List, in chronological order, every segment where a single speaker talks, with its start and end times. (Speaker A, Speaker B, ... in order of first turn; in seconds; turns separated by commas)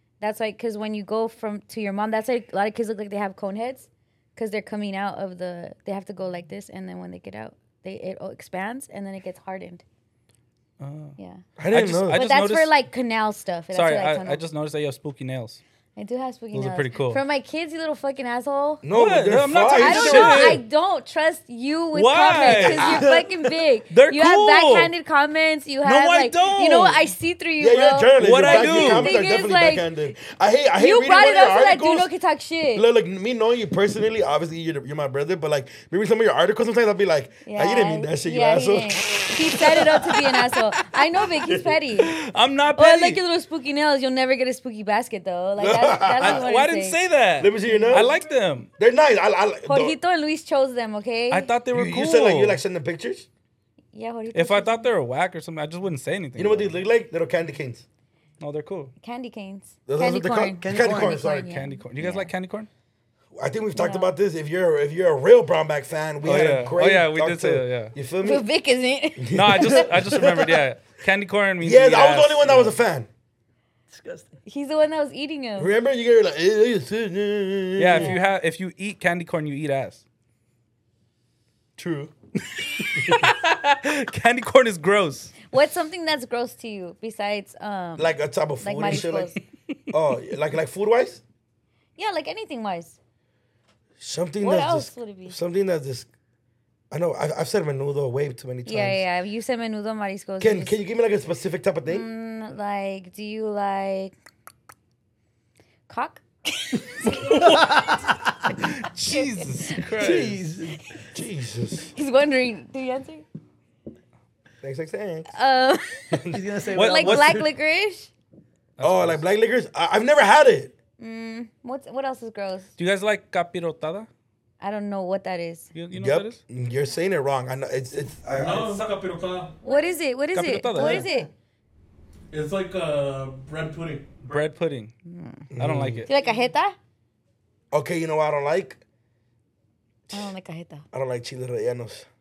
Speaker A: 0.2-9.8, Speaker B: 10.8-11.2, Speaker A: 11.2-11.4, Speaker C: 11.6-12.2, Speaker B: 11.7-12.7, Speaker A: 12.1-14.4, Speaker B: 13.7-15.6, Speaker A: 15.9-18.8, Speaker B: 16.5-17.2, Speaker C: 18.8-20.6, Speaker B: 18.9-20.6, Speaker A: 19.7-29.8, Speaker B: 21.9-23.1, Speaker C: 22.5-23.3, Speaker B: 23.9-24.9, Speaker B: 25.8-27.1, Speaker C: 27.6-32.1, Speaker B: 28.2-29.4, Speaker A: 30.8-32.8, Speaker C: 32.7-39.9, Speaker A: 37.4-42.1, Speaker C: 41.4-41.8, Speaker B: 42.1-43.2, Speaker A: 42.8-47.0, Speaker C: 45.6-46.5, Speaker B: 46.2-48.7, Speaker C: 47.4-48.1, Speaker A: 47.6-48.1, Speaker C: 48.8-49.9, Speaker A: 49.7-51.5, Speaker B: 51.3-52.6, Speaker C: 51.7-53.2, Speaker A: 53.9-54.9, Speaker B: 54.3-56.8, Speaker C: 56.4-57.8, Speaker B: 58.4-58.9, Speaker A: 59.0-62.3, Speaker C: 59.9-61.5, Speaker D: 60.6-61.2, Speaker B: 61.4-62.7, Speaker C: 63.3-68.5, Speaker A: 63.7-64.1, Speaker B: 66.2-67.9, Speaker A: 68.2-69.8, Speaker C: 69.2-70.2, Speaker B: 69.3-72.7, Speaker C: 71.6-73.1, Speaker D: 73.9-74.3, Speaker A: 74.5-75.7, Speaker C: 75.6-78.1, Speaker B: 77.8-80.0, Speaker A: 77.9-78.2, Speaker C: 81.8-82.1, Speaker B: 82.7-85.4, Speaker A: 85.5-89.4, Speaker C: 88.0-89.3, Speaker C: 89.9-91.2, Speaker A: 92.0-93.0, Speaker C: 94.0-96.1, Speaker A: 94.4-95.3, Speaker C: 96.9-99.0, Speaker A: 98.6-100.8, Speaker C: 100.4-102.0, Speaker A: 101.8-104.1, Speaker A: 105.9-107.4, Speaker B: 107.1-108.0, Speaker D: 107.3-108.4, Speaker B: 108.5-110.5, Speaker A: 109.1-109.8, Speaker D: 109.9-111.0, Speaker C: 111.1-111.9, Speaker A: 111.9-113.2, Speaker C: 114.6-115.3, Speaker A: 115.3-118.1, Speaker C: 116.1-116.4, Speaker D: 116.3-117.5, Speaker B: 116.7-117.4, Speaker B: 118.8-119.2, Speaker C: 118.8-120.7, Speaker A: 121.0-122.7, Speaker B: 122.8-124.1, Speaker A: 124.6-125.7, Speaker B: 125.7-126.4, Speaker C: 126.0-128.8, Speaker E: 128.3-129.6, Speaker A: 129.6-131.3, Speaker B: 130.3-131.1, Speaker D: 130.8-131.3, Speaker E: 132.3-134.3, Speaker B: 134.2-134.9, Speaker A: 135.0-135.5, Speaker C: 135.5-136.1, Speaker B: 135.6-136.1, Speaker A: 136.1-136.8, Speaker C: 137.7-138.8, Speaker A: 140.1-140.8, Speaker C: 140.9-142.0